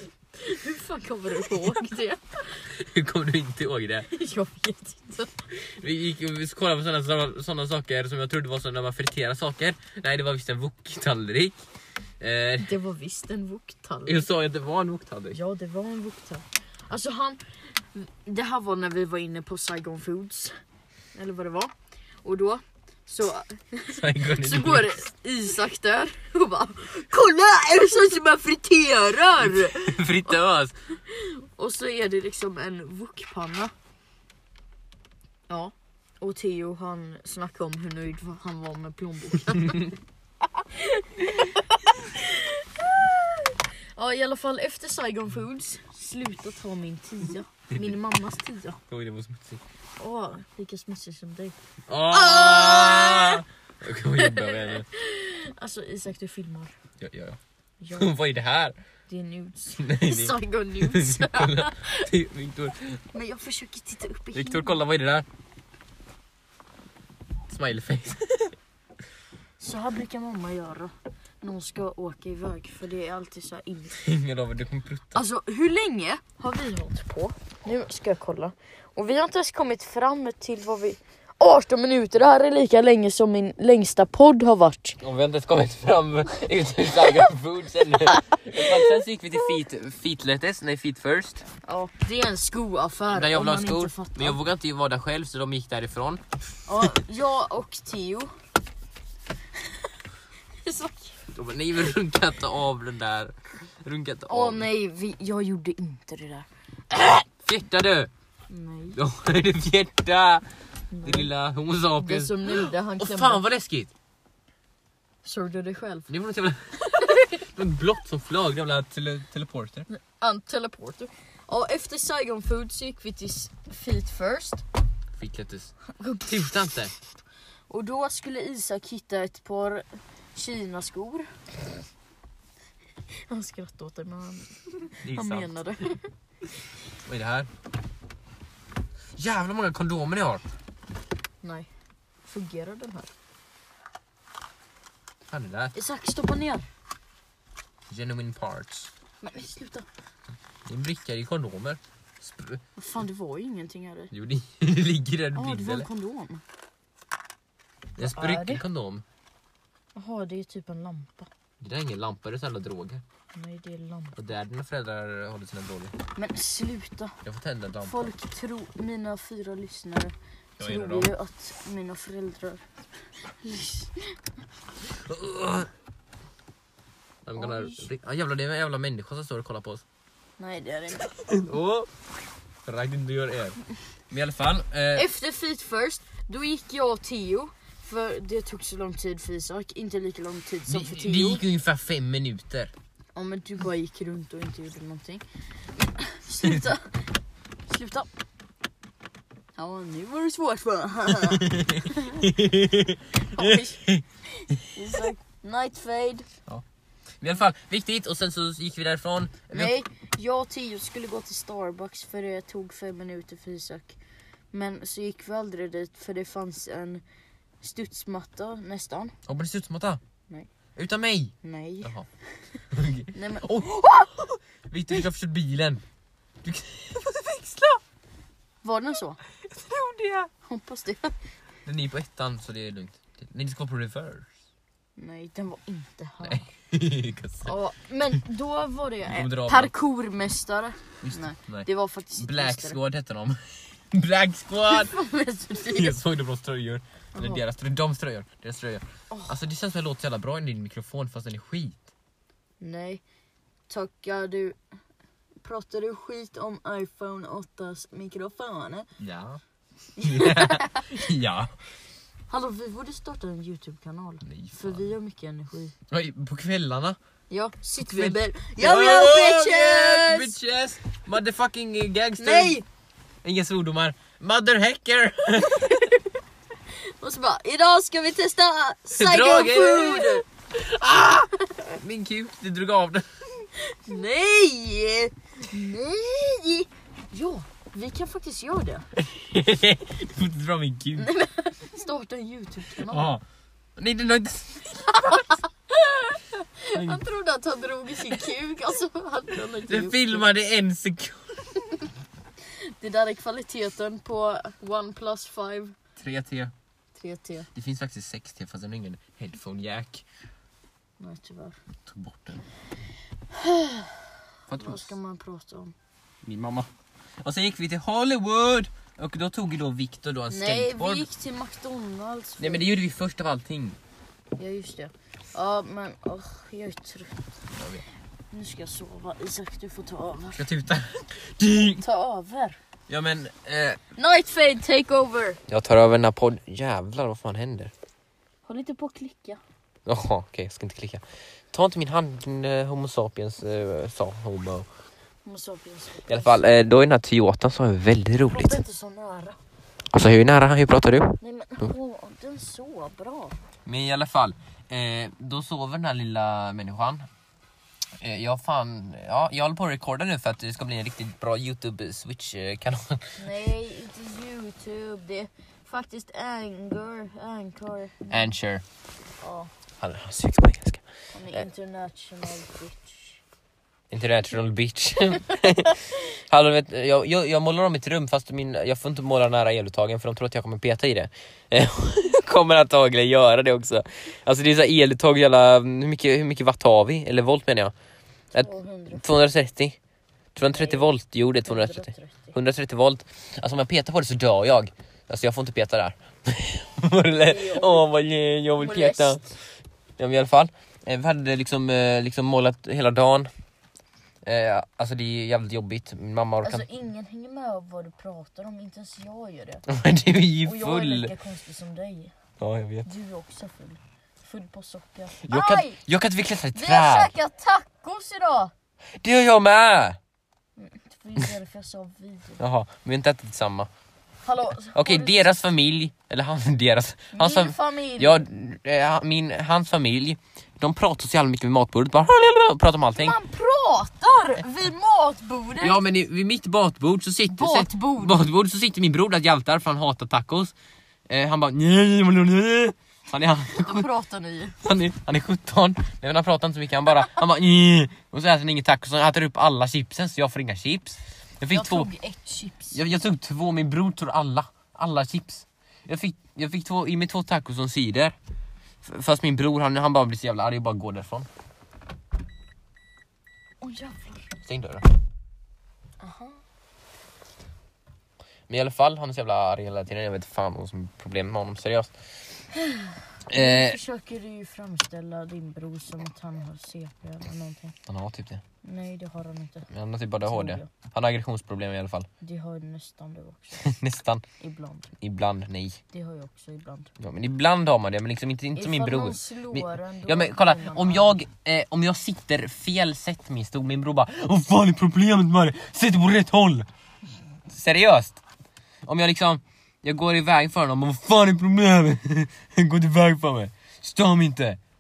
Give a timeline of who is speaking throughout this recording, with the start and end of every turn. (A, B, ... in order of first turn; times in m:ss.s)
0:00.4-0:02.6 A
0:01.4-0:01.8 B
0:02.7-0:04.1 B
0:04.1-0:05.3 A
0:05.5-0:11.6 B
0:12.2-0:12.7 B
0:12.6-0:14.2 A
0:14.1-0:15.4 B
0:15.3-0:17.4 A
0:17.9-0:20.6 A
0:21.2-0:21.7 A
0:22.2-0:30.4 A
0:23.9-0:25.0 B
0:29.4-0:30.8 B
0:31.0-0:33.7 A
0:35.5-0:39.9 A
0:40.6-0:48.8 A
0:48.9-0:49.6 B
0:50.0-0:51.6 A
0:51.9-0:54.9 B
0:52.1-0:53.4 A
0:54.2-0:56.7 A
0:57.0-0:57.4 B
0:57.8-0:58.1 A
0:57.9-0:58.8 B
0:59.1-1:02.1 A
0:59.8-1:03.0 B
1:03.1-1:04.8 A
1:04.3-1:05.3 B
1:07.5-1:08.6 B
1:09.6-1:14.0 A
1:14.0-1:15.2 B
1:15.1-1:25.0 A
1:25.0-1:31.4 B
1:28.6-1:28.8 A
1:31.6-1:34.4 A
1:33.1-1:36.2 B
1:36.7-1:38.3 A
1:40.6-1:41.2 A
1:41.3-1:44.7 B
1:44.3-1:47.2 A
1:47.4-1:48.1 B
1:48.5-1:49.0 A
1:49.0-1:50.4 B
1:50.9-1:51.3 A
1:51.0-1:53.9 B
1:52.0-1:53.4 A
1:55.2-1:56.1 A
1:56.1-1:59.9 B
1:59.9-2:04.6 A
2:05.2-2:06.9 B
2:05.9-2:06.5 A
2:07.7-2:11.3 A
2:13.3-2:16.1 A
2:15.0-2:15.6 B
2:17.1-2:17.5 B
2:19.2-2:20.4 B
2:21.4-2:21.7 A
2:22.2-2:23.1 A
2:25.3-2:25.7 B
2:25.7-2:26.7 A
2:27.9-2:28.9 B
2:29.2-2:29.9 A
2:30.7-2:32.6 B
2:32.8-2:34.1 A
2:34.1-2:35.9 B
2:35.4-2:36.4 A
2:38.0-2:39.0 B
2:38.0-2:38.6 A
2:40.0-2:41.3 A
2:41.6-2:43.0 B
2:43.3-2:44.2 A
2:44.2-2:45.9 B
2:46.2-2:47.2 A
2:47.2-2:48.1 B
2:47.8-2:52.6 A
2:50.6-2:51.1 B
2:53.4-2:54.2 A
2:54.8-2:55.7 B
2:57.2-2:59.8 B
2:57.4-2:57.9 A
3:00.4-3:01.4 A
3:01.3-3:01.9 B
3:02.6-3:03.6 B
3:04.1-3:05.1 B
3:05.0-3:11.4 A
3:10.7-3:12.7 B
3:13.2-3:15.2 A
3:15.8-3:17.0 A
3:17.7-3:18.1 A
3:19.6-3:22.3 A
3:21.1-3:24.7 B
3:23.2-3:23.8 A
3:24.4-3:26.3 A
3:27.2-3:29.7 B
3:29.5-3:34.0 A
3:34.5-3:37.0 A
3:37.6-3:39.1 A
3:39.3-3:40.0 B
3:40.8-3:42.1 B
3:41.4-3:41.9 A
3:42.7-3:45.8 B
3:43.1-3:44.1 A
3:46.4-3:47.8 B
3:48.6-3:49.2 A
3:49.4-3:50.3 B
3:50.4-3:51.2 A
3:51.7-3:54.3 B
3:55.0-3:56.5 A
3:56.2-3:57.5 B
3:57.4-4:02.8 A
3:59.0-3:59.7 B
4:01.0-4:05.0 B
4:04.7-4:06.0 A
4:05.6-4:11.9 B
4:07.2-4:07.4 A
4:09.1-4:09.4 A
4:12.6-4:13.0 A
4:13.7-4:14.6 A
4:15.4-4:18.9 A
4:19.0-4:19.4 B
4:20.0-4:21.1 A
4:20.0-4:21.5 B
4:22.3-4:25.8 A
4:24.2-4:24.9 B
4:25.9-4:27.0 B
4:27.3-4:30.4 A
4:27.8-4:32.6 B
4:32.2-4:32.6 A
4:33.2-4:36.0 B
4:36.8-4:40.2 A
4:38.9-4:43.5 B
4:43.6-4:48.9 A
4:49.0-4:51.1 B
4:51.0-4:53.1 A
4:52.8-4:53.2 B
4:53.8-4:55.3 B
4:55.0-5:00.2 A
4:56.7-4:57.0 B
4:59.7-5:01.8 B
5:02.6-5:05.8 A
5:06.0-5:06.5 B
5:06.9-5:07.5 A
5:07.5-5:10.0 B
5:11.0-5:11.6 A
5:11.9-5:12.4 B
5:13.3-5:15.8 A
5:14.5-5:14.9 B
5:16.2-5:16.7 B
5:17.2-5:21.1 B
5:20.3-5:22.7 A
5:22.4-5:23.8 B
5:24.4-5:27.2 A
5:27.6-5:27.8 B
5:28.3-5:30.5 A
5:30.4-5:31.8 B
5:31.8-5:32.6 A
5:32.9-5:33.8 B
5:34.0-5:35.4 A
5:35.5-5:37.7 B
5:38.5-5:39.4 A
5:39.9-5:44.7 B
5:45.2-5:46.4 A
5:46.1-5:48.6 B
5:48.3-5:49.4 A
5:49.9-5:51.7 B
5:51.2-5:53.4 A
5:53.7-5:57.1 B
5:58.0-6:03.2 B
6:03.2-6:08.3 A
6:08.1-6:08.6 B
6:09.2-6:09.5 A
6:09.8-6:11.5 B
6:11.1-6:13.2 A
6:13.9-6:27.8 B
6:28.3-6:29.0 A
6:28.3-6:29.8 B
6:30.4-6:39.2 B
6:30.4-6:30.9 A
6:31.4-6:32.4 A
6:37.2-6:37.9 A
6:38.6-6:39.3 A
6:40.0-6:43.3 B
6:44.2-6:46.6 B
6:46.4-6:49.6 A
6:49.7-6:51.1 B
6:50.4-6:52.1 A
6:52.4-6:52.9 B
6:52.8-6:55.8 A
6:55.2-6:57.1 B
6:56.5-6:58.5 A
6:59.0-7:00.0 B
7:00.6-7:02.4 A
7:02.4-7:03.7 B
7:04.2-7:05.3 A
7:04.7-7:13.2 B
7:07.1-7:08.3 A
7:13.0-7:15.8 A
7:15.6-7:20.5 B
7:17.3-7:18.2 A
7:21.1-7:23.9 B
7:23.6-7:24.6 A
7:24.6-7:31.9 B
7:31.5-7:32.8 A
7:32.7-7:38.2 B
7:38.8-7:41.3 B
7:43.6-7:44.4 A
7:44.4-7:44.9 B
7:46.0-7:46.4 A
7:48.5-7:51.9 B
7:52.5-7:57.8 A
7:53.3-7:53.8 B
7:57.9-7:58.4 B
7:58.6-7:59.7 A
7:59.7-8:02.1 B
8:00.3-8:00.7 A
8:02.2-8:03.7 A
8:03.6-8:04.2 B
8:04.4-8:04.9 A
8:05.0-8:05.8 B
8:05.9-8:06.9 A
8:07.0-8:16.7 B
8:08.6-8:11.1 A
8:17.5-8:18.2 B
8:18.8-8:24.6 B